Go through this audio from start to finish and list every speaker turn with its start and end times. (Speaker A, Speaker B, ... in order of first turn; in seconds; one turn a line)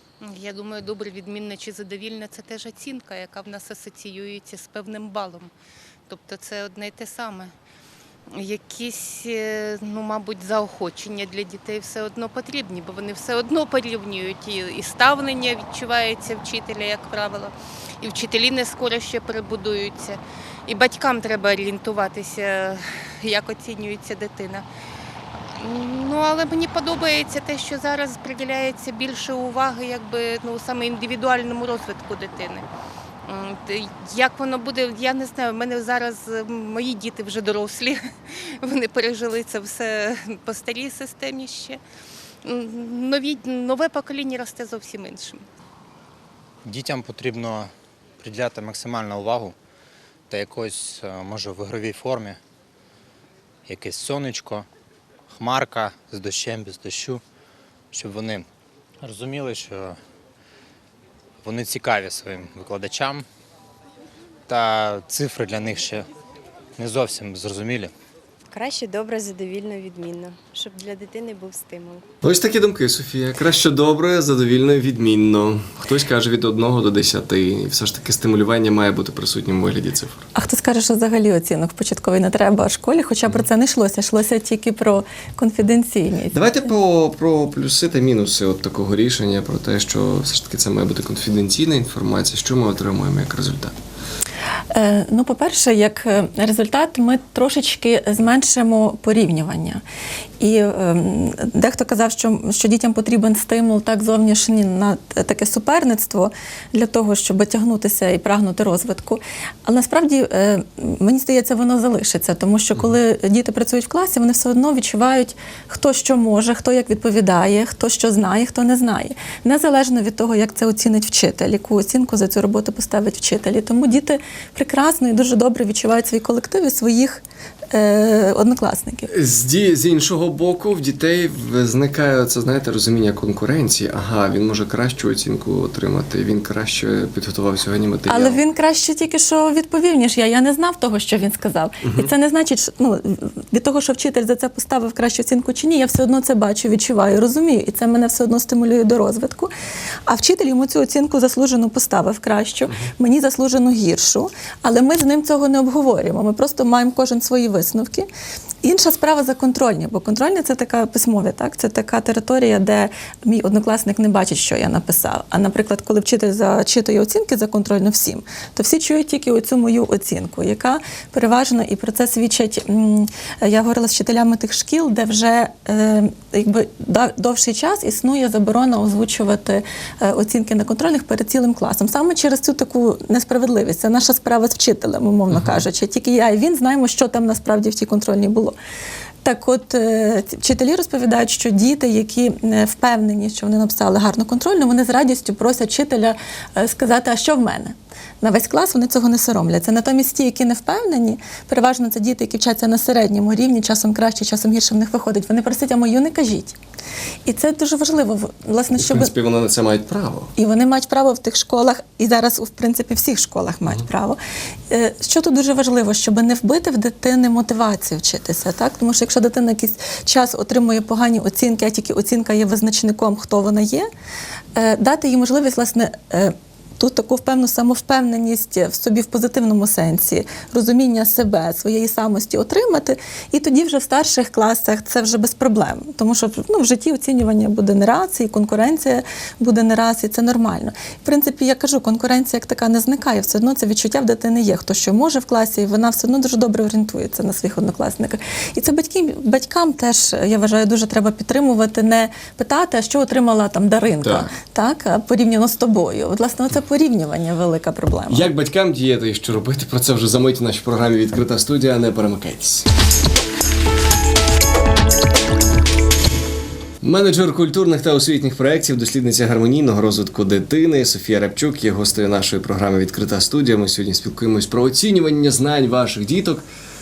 Speaker A: 0.2-5.5
Speaker A: 6.1-7.5
Speaker A: 8.3-24.6
Speaker A: 25.6-32.7
Speaker A: 33.2-41.8
Speaker A: 42.4-45.4
Speaker B: 46.6-49.5
Speaker B: 50.3-52.4
Speaker B: 53.6-54.7
Speaker B: 55.3-57.2
Speaker B: 57.9-58.5
Speaker B: 59.0-60.0
Speaker B: 61.4-63.3
Speaker B: 64.5-66.1
Speaker B: 66.8-67.9
Speaker C: 68.5-72.0
Speaker D: 72.2-80.3
Speaker E: 80.3-86.6
Speaker D: 86.3-93.7
Speaker E: 94.7-99.8
Speaker E: 100.4-129.1
Speaker D: 129.1-138.4
Speaker E: 138.1-149.5
Speaker D: 141.8-142.1
Speaker E: 150.1-158.1
Speaker E: 158.6-188.5
Speaker D: 185.3-185.6
Speaker E: 189.2-206.6
Speaker E: 207.2-209.1
Speaker D: 208.8-210.3
Speaker E: 210.3-214.2
Speaker E: 214.7-223.9
Speaker E: 224.5-258.3
Speaker D: 254.0-254.3
Speaker D: 258.1-262.7
Speaker D: 266.8-276.4